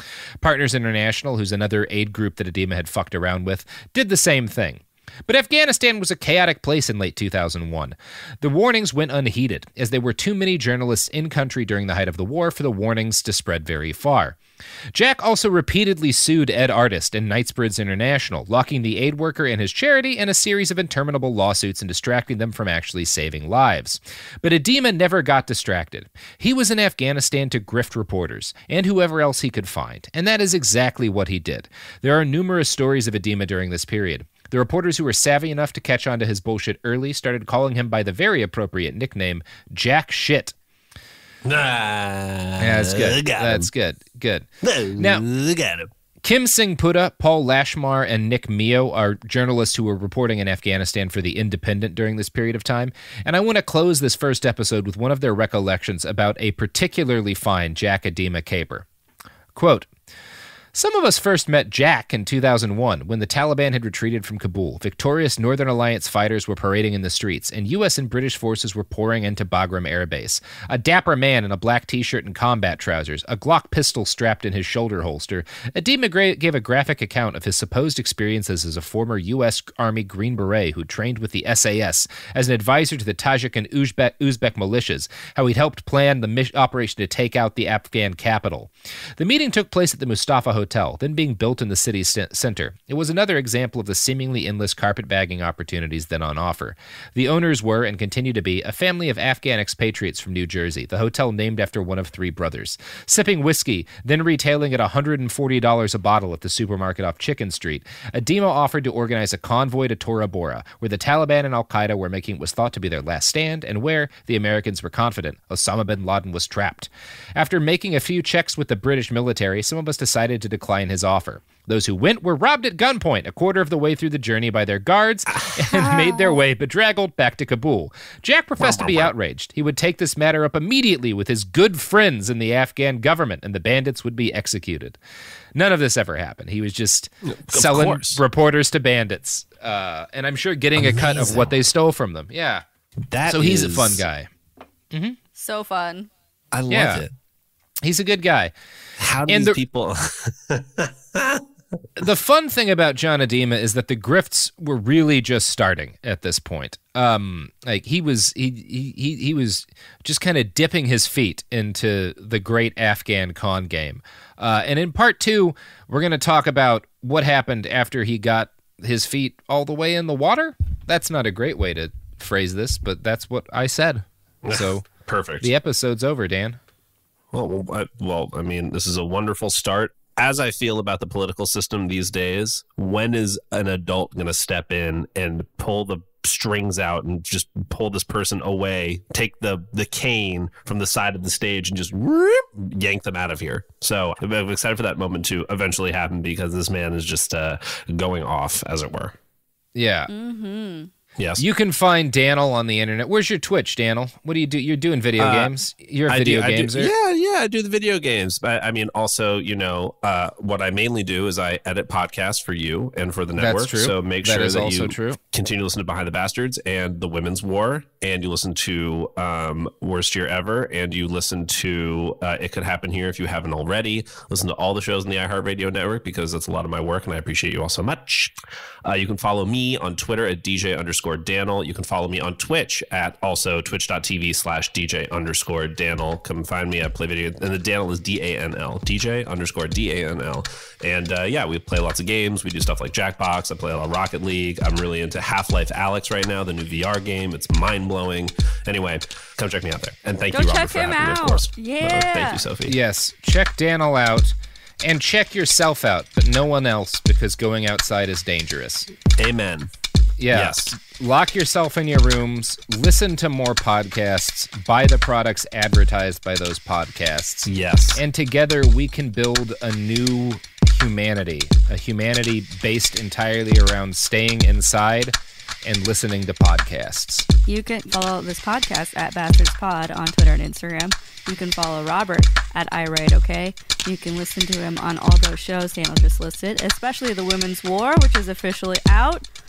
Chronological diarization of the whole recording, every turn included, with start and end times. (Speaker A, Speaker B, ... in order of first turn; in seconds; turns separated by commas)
Speaker A: 0.4-14.4, Speaker A: 14.9-40.5, Speaker B: 41.4-43.7, Speaker A: 42.6-45.2, Speaker B: 44.6-45.9, Speaker A: 46.2-58.9, Speaker A: 59.5-59.9, Speaker A: 60.7-135.0, Speaker B: 125.3-126.4, Speaker B: 128.6-129.1, Speaker A: 135.6-142.6, Speaker B: 137.2-138.2, Speaker B: 140.8-141.6, Speaker B: 143.1-144.0, Speaker A: 143.3-144.3, Speaker A: 144.9-145.2, Speaker C: 145.4-146.1, Speaker B: 146.5-147.1, Speaker A: 146.7-147.1, Speaker A: 147.8-148.5, Speaker B: 149.0-151.4, Speaker A: 149.3-149.6, Speaker A: 152.0-174.9, Speaker B: 174.4-175.5, Speaker A: 175.4-176.6, Speaker B: 177.3-199.2, Speaker A: 199.8-200.1, Speaker C: 200.1-200.9, Speaker B: 201.2-201.4, Speaker A: 201.4-206.9, Speaker B: 205.2-205.6, Speaker B: 206.1-252.8, Speaker A: 213.4-215.2, Speaker C: 250.3-252.4, Speaker A: 252.7-258.9, Speaker B: 259.2-259.7, Speaker A: 260.2-277.3, Speaker B: 260.3-260.7, Speaker B: 267.5-268.0, Speaker C: 277.5-289.3